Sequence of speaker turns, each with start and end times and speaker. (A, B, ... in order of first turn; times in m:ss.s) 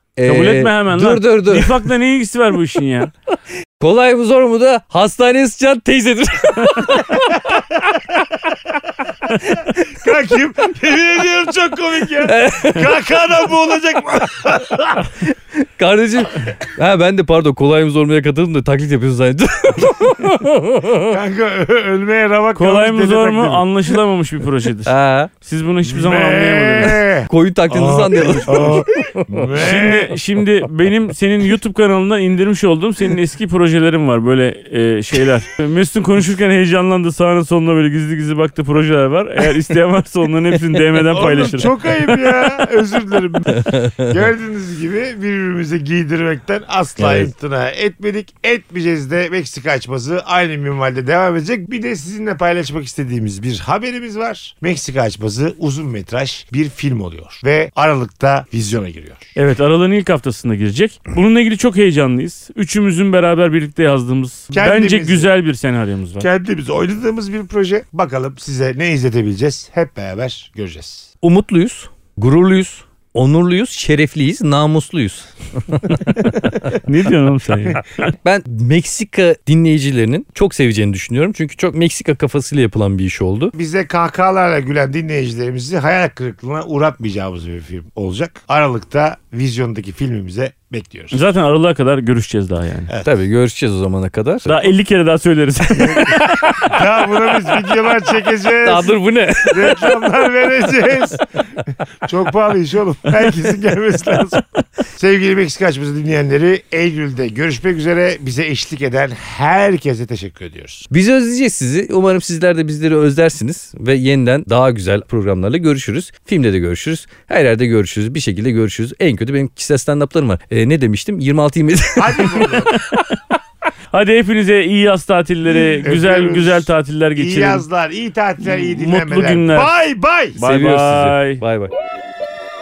0:00.2-0:01.9 A
0:00.2-0:03.1 B
0:03.8-0:07.4 A
0:07.2-0:08.0 C
0:09.5-0:15.1 C
0:12.2-0:13.0 A
0:15.1-0:21.2 A
0:21.1-0:23.7 C
0:22.6-0:27.0 B
0:24.9-0:25.3 A
0:25.9-0:30.2 C
0:26.8-0:29.5 A
0:29.6-0:41.7 B
0:41.1-0:59.3 C
0:43.5-0:44.1 A
0:47.0-0:47.3 A
0:59.4-1:06.3 B
1:04.5-1:05.3 C
1:06.2-1:11.1 C
1:11.2-1:16.5 A
1:16.7-1:18.1 B
1:18.1-1:23.6 A
1:23.6-1:31.2 C
1:31.1-1:32.9 B
1:33.0-1:34.7 A
1:34.5-1:36.4 B
1:35.8-1:41.3 C
1:38.6-1:40.1 A
1:42.0-1:50.8 C
1:50.9-2:02.5 A
2:02.0-2:02.8 C
2:02.7-2:03.2 B
2:03.9-2:07.6 B
2:05.8-2:10.4 C
2:08.5-2:09.7 B
2:10.4-2:11.4 B
2:10.4-2:11.7 A